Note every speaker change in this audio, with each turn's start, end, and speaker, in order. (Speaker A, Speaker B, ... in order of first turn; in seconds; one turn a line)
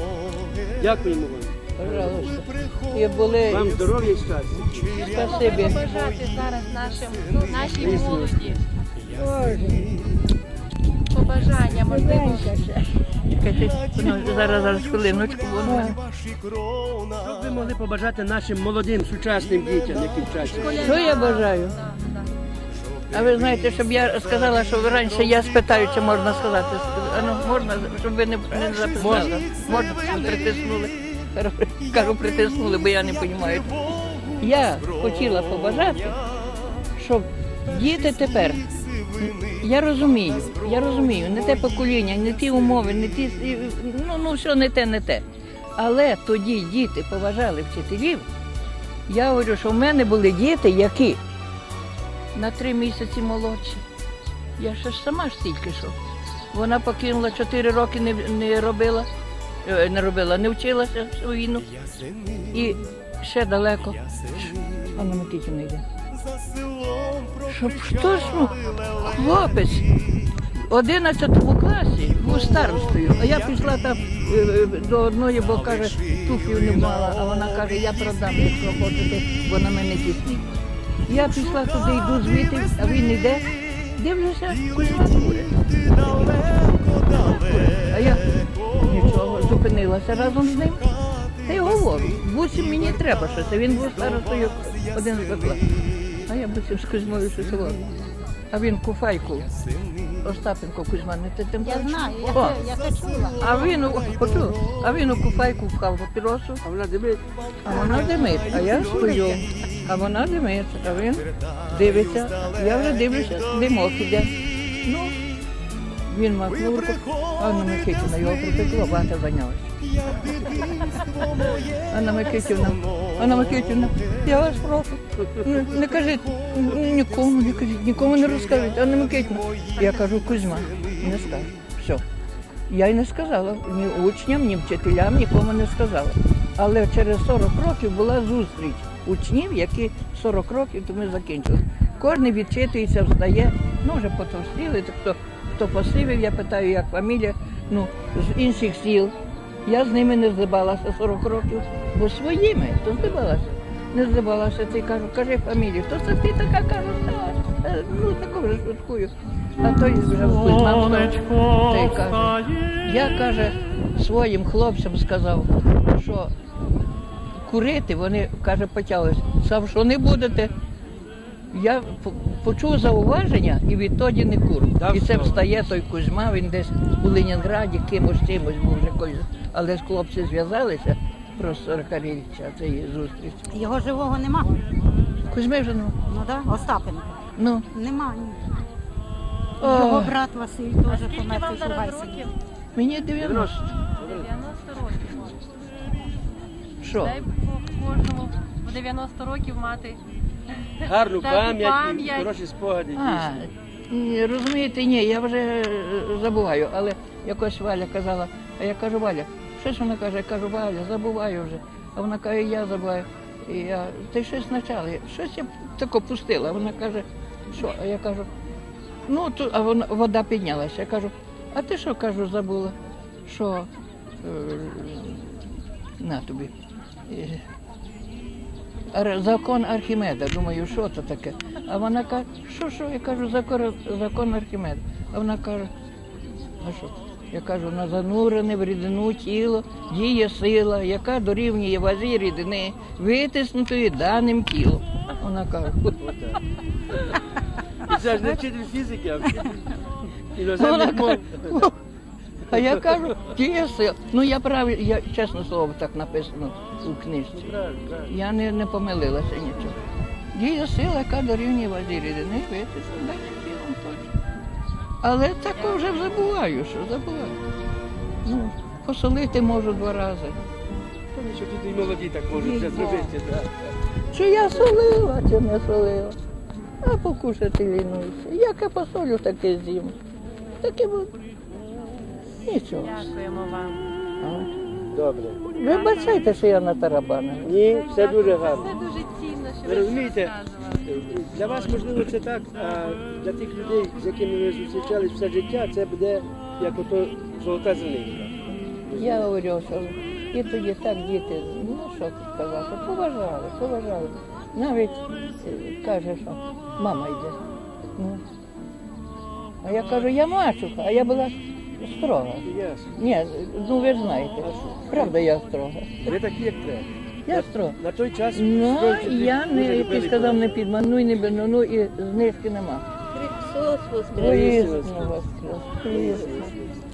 Speaker A: 0.8-2.4
Speaker B: 1.8-3.7
Speaker A: 3.5-5.1
Speaker B: 4.9-5.9
Speaker C: 4.9-8.6
Speaker A: 7.6-8.6
Speaker B: 9.1-9.9
Speaker C: 11.1-12.5
Speaker B: 11.7-16.0
Speaker A: 17.0-21.1
Speaker C: 20.4-22.3
Speaker B: 20.7-21.8
Speaker B: 23.1-36.2
Speaker A: 29.0-29.5
Speaker B: 36.9-45.2
Speaker B: 45.8-48.3
Speaker B: 49.1-51.2
Speaker B: 52.3-53.8
Speaker B: 54.6-56.0
Speaker B: 56.5-59.1
Speaker B: 59.6-61.7
Speaker B: 62.5-65.8
Speaker B: 67.4-69.9
Speaker B: 70.6-80.5
Speaker B: 81.0-88.2
Speaker B: 88.7-90.8
Speaker B: 91.4-95.8
Speaker B: 96.3-97.9
Speaker B: 98.5-99.5
Speaker B: 100.2-102.6
Speaker D: 101.6-103.9
Speaker B: 103.3-106.6
Speaker A: 106.6-107.2
Speaker B: 107.6-115.2
Speaker A: 107.8-109.4
Speaker B: 116.0-132.0
Speaker B: 132.7-166.3
Speaker B: 167.4-170.5
Speaker B: 171.5-183.5
Speaker A: 174.8-175.4
Speaker D: 183.5-184.5
Speaker B: 185.3-186.0
Speaker D: 186.1-188.6
Speaker B: 187.4-187.7
Speaker D: 189.6-192.3
Speaker B: 189.6-190.2
Speaker C: 190.9-192.3
Speaker B: 192.7-193.7
Speaker A: 193.2-194.3
Speaker C: 194.0-195.4
Speaker B: 196.8-197.2
Speaker C: 197.0-200.0
Speaker C: 200.8-202.3
Speaker A: 200.8-203.4
Speaker B: 202.9-218.3
Speaker B: 219.1-222.7
Speaker B: 223.2-223.7
Speaker B: 224.2-226.5
Speaker B: 227.1-227.4
Speaker B: 228.9-235.7
Speaker B: 236.6-246.0
Speaker A: 246.0-246.4
Speaker A: 247.8-251.7
Speaker B: 250.5-251.8
Speaker B: 252.5-257.5
Speaker A: 252.5-253.2
Speaker A: 257.3-258.1
Speaker B: 258.1-259.8
Speaker B: 260.3-264.1
Speaker B: 265.0-267.4
Speaker B: 268.2-270.4
Speaker A: 271.1-273.6
Speaker B: 272.4-273.1
Speaker B: 274.1-276.2
Speaker B: 276.8-279.9
Speaker B: 280.6-281.1
Speaker B: 282.4-283.1
Speaker C: 282.8-283.9
Speaker B: 284.2-284.5
Speaker A: 284.9-285.5
Speaker B: 285.5-287.5
Speaker A: 287.4-288.7
Speaker C: 287.8-290.8
Speaker A: 289.6-299.3
Speaker B: 298.9-307.4
Speaker B: 307.9-308.2
Speaker B: 309.6-316.1
Speaker A: 312.4-313.0
Speaker A: 314.4-315.1
Speaker A: 316.0-320.7
Speaker B: 317.2-317.8
Speaker B: 318.3-322.9
Speaker A: 323.2-325.2
Speaker B: 324.1-326.5
Speaker A: 325.9-326.7